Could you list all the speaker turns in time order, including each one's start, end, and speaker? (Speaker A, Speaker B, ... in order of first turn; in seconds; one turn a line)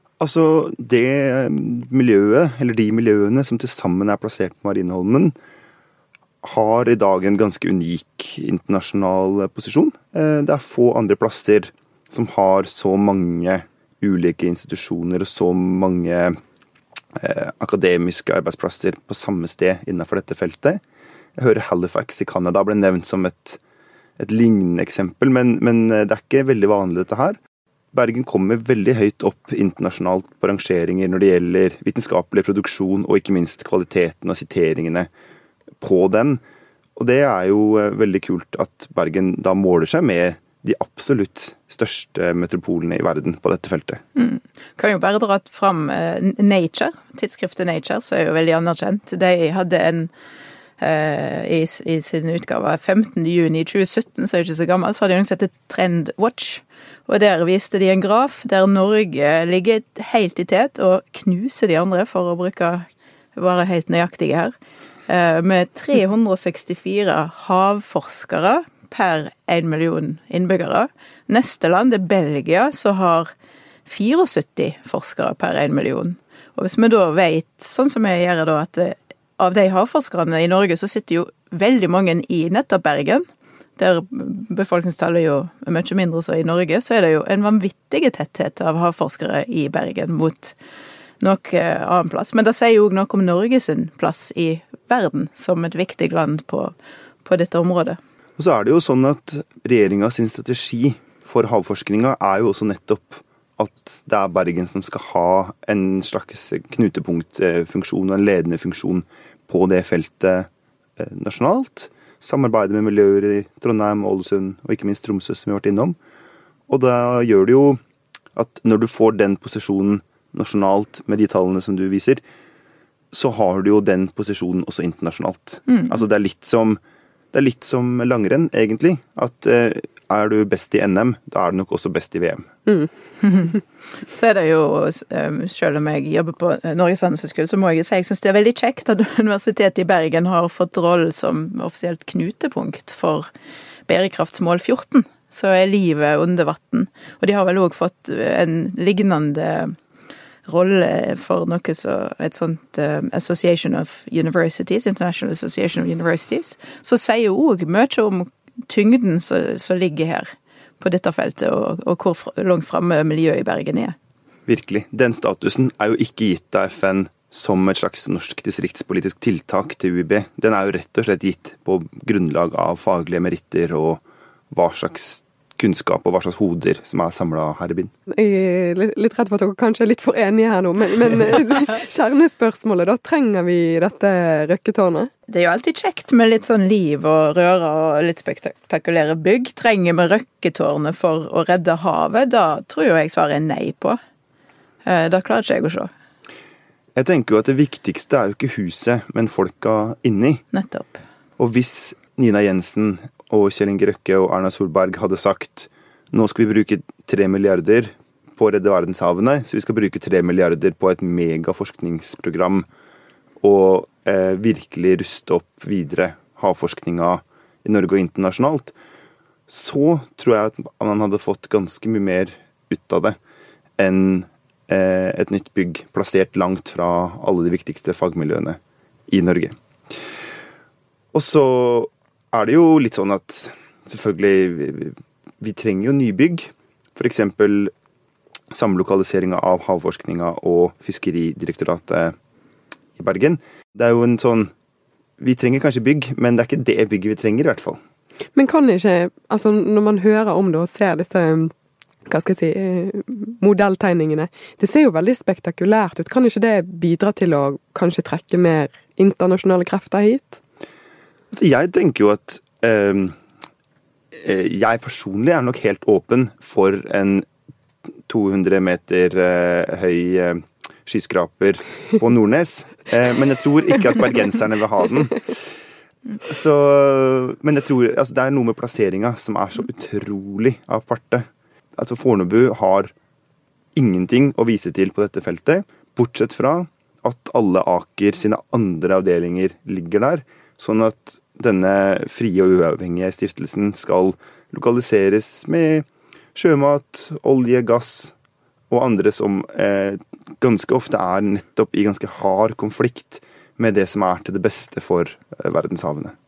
Speaker A: 0.2-5.3
Speaker A: 6.4-16.4
Speaker A: 17.1-20.8
Speaker A: 21.4-23.6
Speaker A: 24.2-27.4
Speaker A: 27.9-35.1
Speaker A: 35.8-36.4
Speaker A: 37.0-44.0
Speaker B: 44.2-50.1
Speaker B: 50.8-64.5
Speaker B: 65.1-73.3
Speaker B: 73.9-83.3
Speaker B: 83.8-90.5
Speaker B: 91.2-96.7
Speaker B: 97.2-98.0
Speaker A: 98.4-116.0
Speaker A: 116.7-117.8
Speaker A: 118.3-122.2
Speaker A: 123.1-126.8
Speaker B: 125.7-126.0
Speaker A: 127.3-132.5
Speaker B: 133.2-143.3
Speaker B: 143.9-149.8
Speaker B: 150.5-164.0
Speaker A: 164.5-177.9
Speaker C: 178.1-185.1
Speaker B: 185.3-194.0
Speaker B: 194.9-195.9
Speaker A: 196.9-200.4
Speaker B: 200.5-201.0
Speaker A: 201.4-212.7
Speaker A: 213.4-218.7
Speaker A: 219.5-223.2
Speaker A: 223.8-229.6
Speaker A: 231.1-237.7
Speaker A: 238.5-242.2
Speaker A: 243.0-244.5
Speaker A: 245.2-247.8
Speaker C: 248.3-251.5
Speaker C: 252.1-260.4
Speaker A: 261.3-263.2
Speaker A: 264.1-267.3
Speaker A: 268.1-275.2
Speaker A: 276.2-282.9
Speaker A: 283.8-298.1
Speaker A: 298.7-306.1